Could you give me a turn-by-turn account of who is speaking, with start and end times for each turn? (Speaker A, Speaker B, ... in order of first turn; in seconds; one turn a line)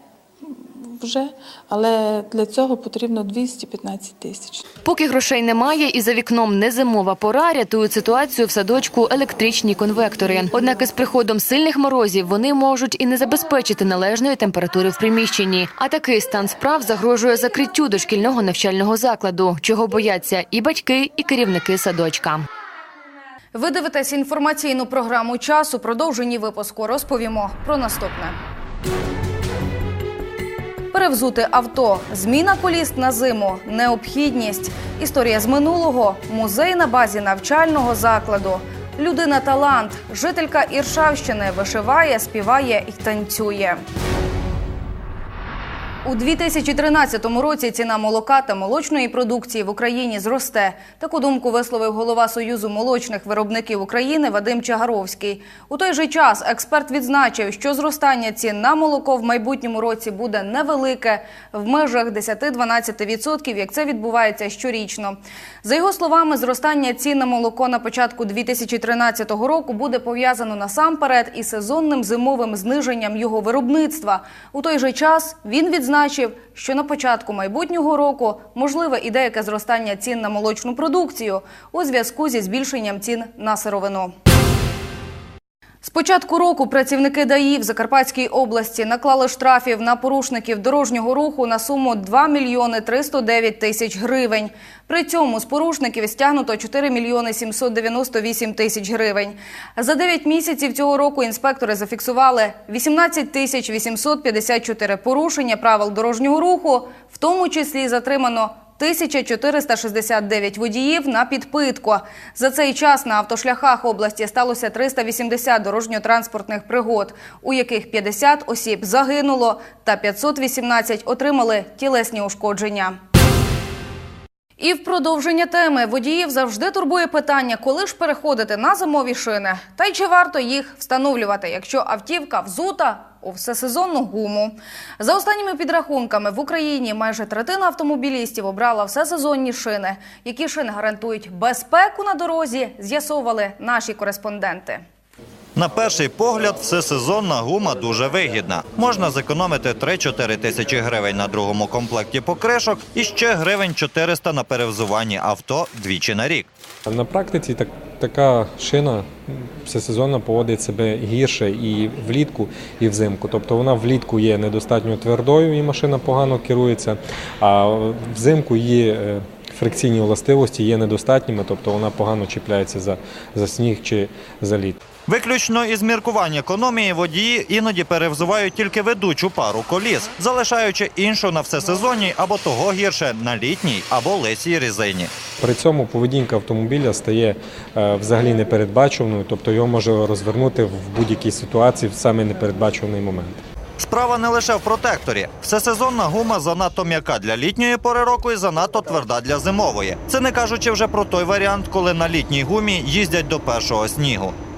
Speaker A: 0.4-4.6
Speaker B: 4.8-22.4
Speaker C: 23.5-28.4
Speaker C: 30.9-43.8
Speaker C: 46.0-84.1
Speaker C: 85.8-123.0
Speaker C: 124.6-144.8
Speaker D: 145.6-156.5
Speaker E: 156.9-174.8
Speaker D: 175.1-185.1
Speaker E: 185.4-193.4
Speaker D: 193.8-204.3